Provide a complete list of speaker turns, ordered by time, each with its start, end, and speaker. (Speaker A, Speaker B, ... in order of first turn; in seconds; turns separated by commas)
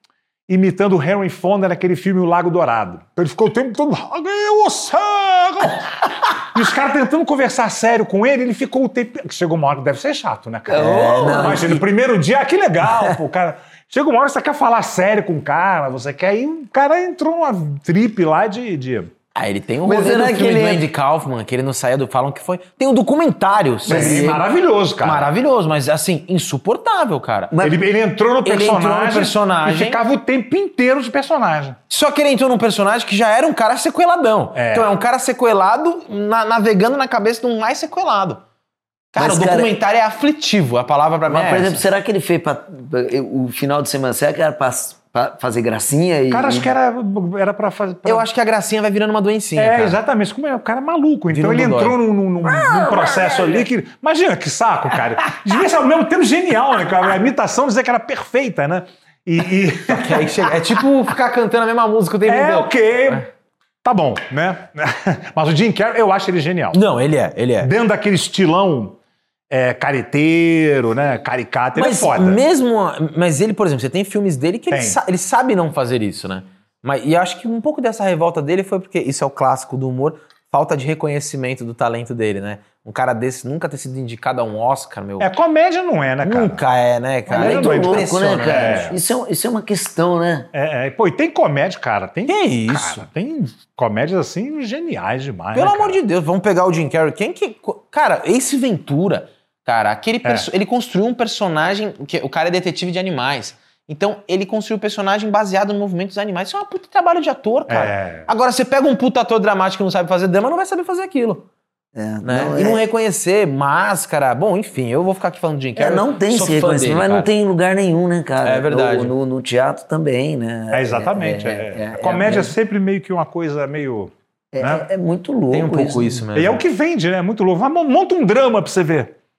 Speaker A: 0.5-19.1, Speaker B: 10.7-11.8, Speaker C: 10.7-11.7, Speaker B: 12.8-13.2, Speaker C: 19.3-24.3, Speaker B: 19.8-20.9, Speaker B: 23.9-24.4, Speaker A: 23.9-25.3, Speaker C: 25.0-27.5, Speaker B: 27.5-27.8, Speaker A: 27.6-31.8, Speaker C: 28.4-30.0, Speaker C: 31.9-38.4, Speaker A: 34.5-34.9, Speaker C: 39.1-41.8, Speaker B: 39.2-39.7, Speaker B: 41.3-46.7, Speaker A: 46.3-48.3, Speaker C: 48.0-50.0, Speaker A: 49.5-60.5, Speaker C: 51.3-52.0, Speaker B: 52.7-53.4, Speaker C: 59.8-63.2, Speaker A: 62.2-63.2, Speaker A: 63.8-66.8, Speaker C: 66.7-67.7, Speaker A: 67.6-69.0, Speaker A: 69.5-72.4, Speaker C: 71.7-85.3, Speaker A: 74.7-75.0, Speaker A: 85.2-86.6, Speaker C: 86.2-88.9, Speaker A: 87.3-89.0, Speaker B: 87.3-90.5, Speaker A: 90.5-96.0, Speaker C: 92.3-93.0, Speaker C: 95.5-111.4, Speaker A: 107.7-108.3, Speaker B: 111.9-112.8, Speaker C: 112.2-117.3, Speaker B: 115.8-122.5, Speaker C: 118.4-119.1, Speaker A: 120.7-124.9, Speaker B: 124.5-126.2, Speaker C: 125.5-126.6, Speaker A: 126.3-129.1